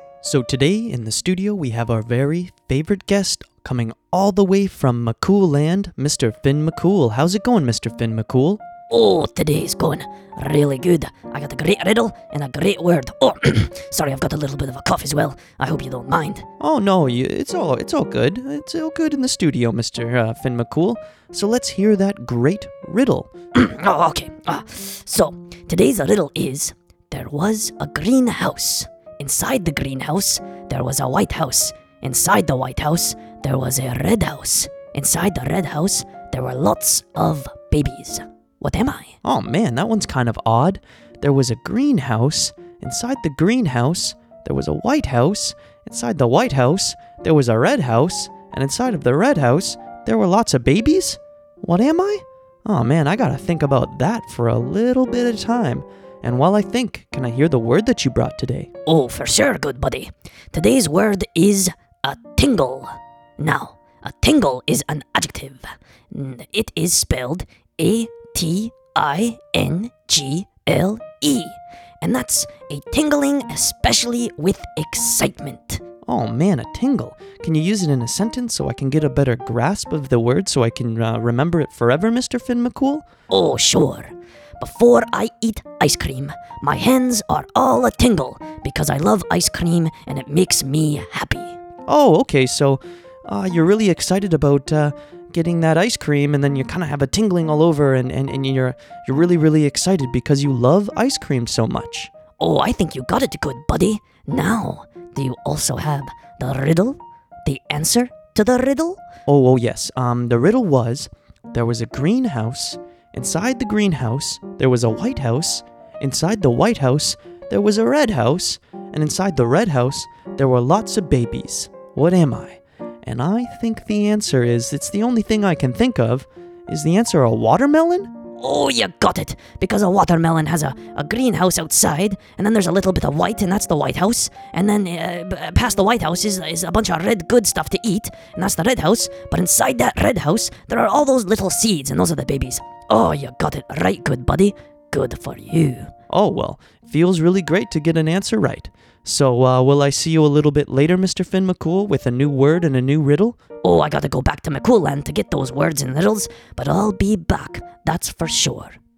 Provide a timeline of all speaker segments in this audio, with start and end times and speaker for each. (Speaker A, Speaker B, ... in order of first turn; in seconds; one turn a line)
Speaker A: 0.2-8.6
Speaker B: 8.9-16.5
Speaker A: 16.6-23.3
Speaker B: 23.6-39.2
Speaker A: 39.2-58.7
Speaker B: 58.9-75.8
Speaker A: 76.1-83.1
Speaker B: 83.3-91.6
Speaker A: 91.9-102.1
Speaker B: 102.4-109.0
Speaker A: 109.3-128.1
Speaker B: 128.3-145.9
Speaker A: 146.1-153.4
Speaker B: 153.6-158.8